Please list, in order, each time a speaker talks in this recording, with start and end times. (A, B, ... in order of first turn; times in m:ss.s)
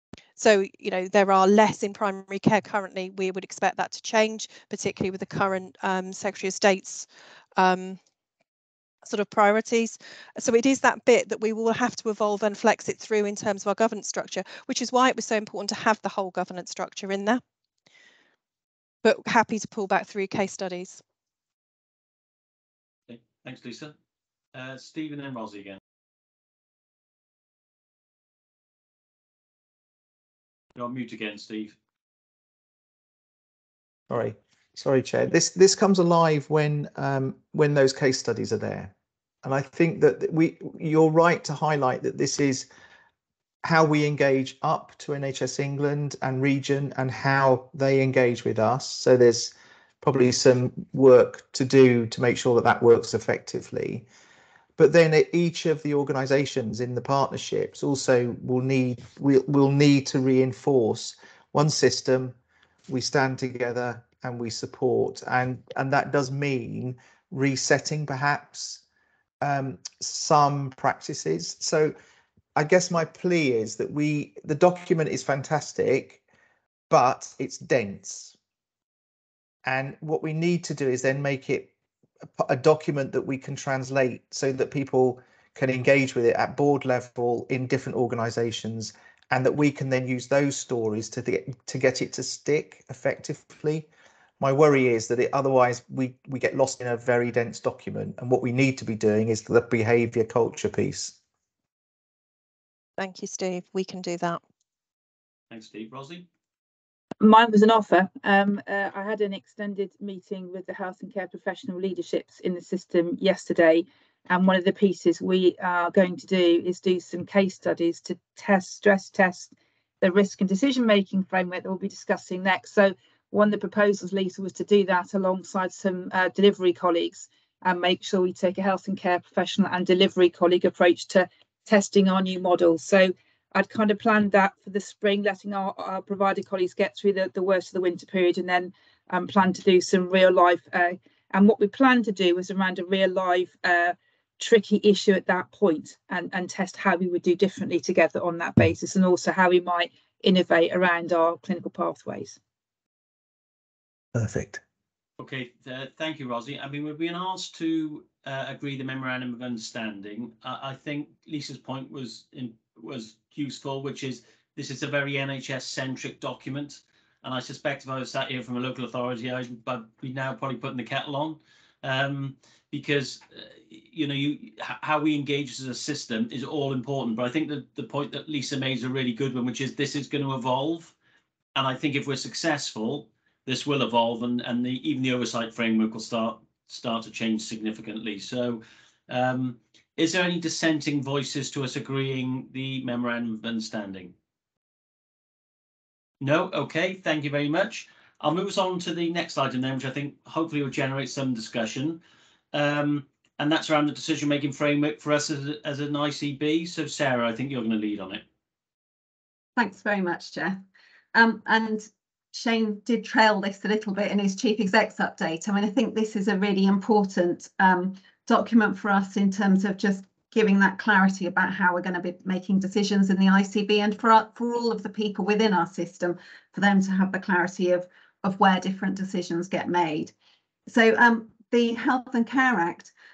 0:00.4-0:07.1 A
0:07.6-0:08.0 A
0:09.1-0:17.4 A
0:19.0-0:21.0 A
0:23.1-0:23.9 B
0:24.5-0:25.8 B
0:30.8-0:31.8 B
0:34.1-0:38.9 C
0:39.4-0:42.7 C
0:43.6-0:54.1 C
0:54.8-1:02.4 C
1:02.9-1:08.8 C
1:09.4-1:12.0 C
1:12.6-1:16.2 C
1:16.9-1:18.4 C
1:19.6-1:21.7 C
1:22.4-1:33.9 C
1:34.4-1:41.2 C
1:43.0-1:44.4 A
1:45.5-1:46.3 B
1:47.2-2:32.4 D
2:34.2-2:34.6 C
2:35.2-3:00.9 B
3:01.6-3:14.1 B
3:16.2-3:22.0 B
3:22.5-3:28.2 B
3:29.6-3:30.6 E
3:31.1-3:50.1 E
3:50.7-3:52.9 E